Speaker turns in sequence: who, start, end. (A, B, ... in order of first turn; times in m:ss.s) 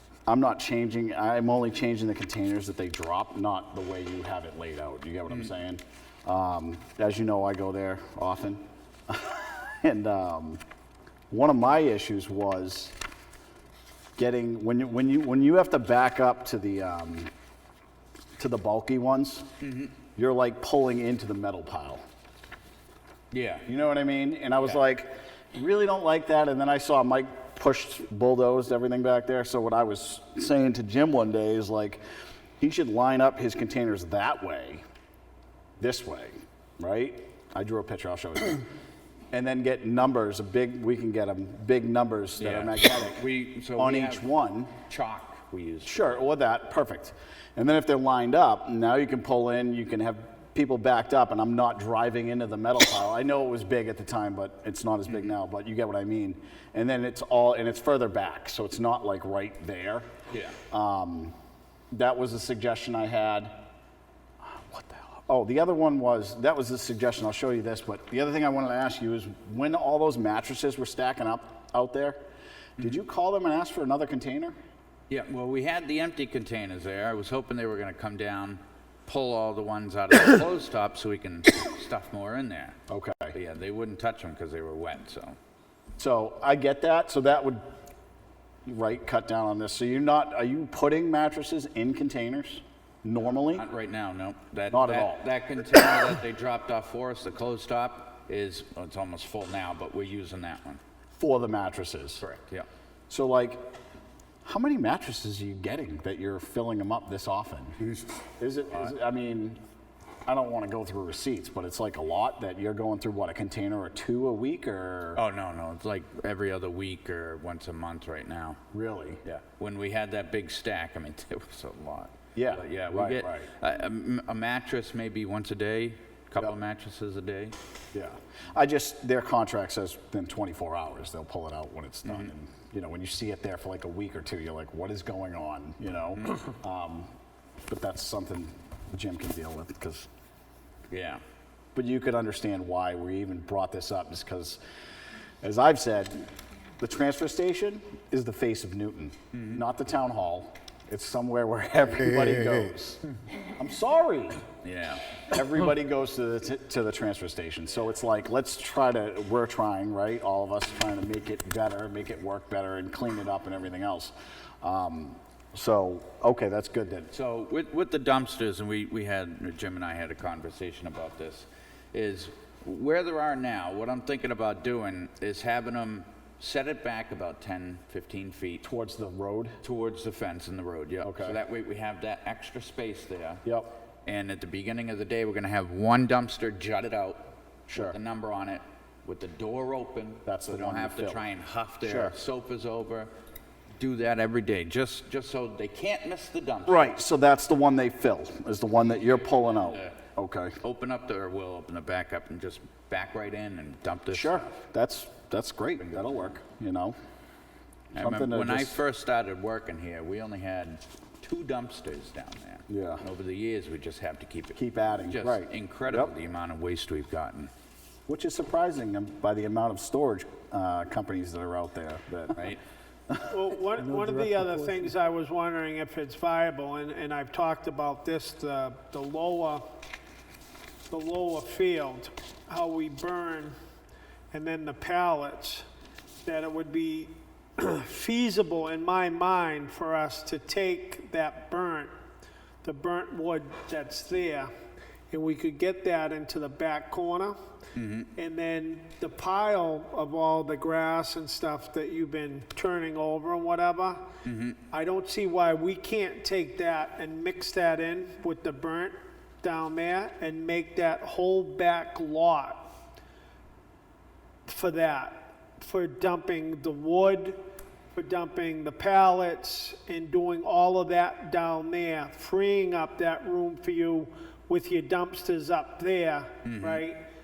0:00.3-0:10.6 A
0:11.3-0:13.0 A
0:14.2-0:17.3 A
0:18.4-0:19.5 A
0:19.6-0:20.0 B
0:20.2-0:22.0 A
0:23.3-0:23.7 B
0:23.7-0:32.0 A
0:32.6-0:34.8 A
0:35.8-0:38.7 A
0:39.3-0:44.7 A
0:42.4-0:44.3 B
0:44.8-0:46.2 B
0:45.8-1:00.1 A
1:00.3-1:00.6 B
1:00.7-1:01.3 A
1:01.9-1:03.5 A
1:04.4-1:12.2 A
1:12.8-1:14.6 A
1:15.1-1:22.8 B
1:22.9-1:23.4 A
1:23.3-1:25.4 B
1:26.0-1:27.6 A
1:28.7-1:33.6 A
1:33.5-1:40.8 B
1:34.7-1:35.2 A
1:41.2-1:42.2 A
1:42.2-1:42.7 B
1:43.1-1:43.6 A
1:44.4-1:49.6 A
1:50.3-1:55.2 A
1:55.2-1:58.6 B
1:58.7-1:59.2 A
1:59.2-2:07.6 B
2:02.4-2:03.5 A
2:07.9-2:17.1 A
2:17.7-2:20.1 A
2:20.9-2:21.2 B
2:21.8-2:24.6 A
2:25.4-2:26.3 A
2:26.8-2:34.4 A
2:29.3-2:29.6 B
2:34.6-2:35.0 B
2:35.3-2:47.1 A
2:47.1-2:58.6 B
2:58.6-2:59.6 A
2:59.6-3:03.4 B
3:01.0-3:01.4 A
3:03.4-3:03.7 A
3:04.0-3:13.1 B
3:07.7-3:08.0 A
3:10.3-3:11.3 A
3:11.8-3:12.2 A
3:13.8-3:16.9 B
3:16.7-3:20.6 A
3:19.6-3:19.9 B
3:20.6-3:24.6 B
3:24.1-3:27.0 A
3:25.8-3:26.3 B
3:27.9-3:37.5 B
3:28.0-3:28.8 A
3:32.7-3:33.0 A
3:34.6-3:36.1 A
3:38.1-3:42.4 A
3:42.4-3:42.6 B
3:43.1-3:44.9 A
3:43.3-3:49.6 C
3:50.9-3:53.6 C
3:54.3-3:55.7 C
3:56.2-4:01.9 C
4:02.6-4:04.5 C
4:05.1-4:07.4 C
4:07.8-4:08.1 B
4:08.2-4:14.0 C
4:14.2-4:14.6 B
4:14.7-4:22.7 C
4:24.5-4:27.4 C
4:28.0-4:37.0 C
4:36.4-4:36.8 B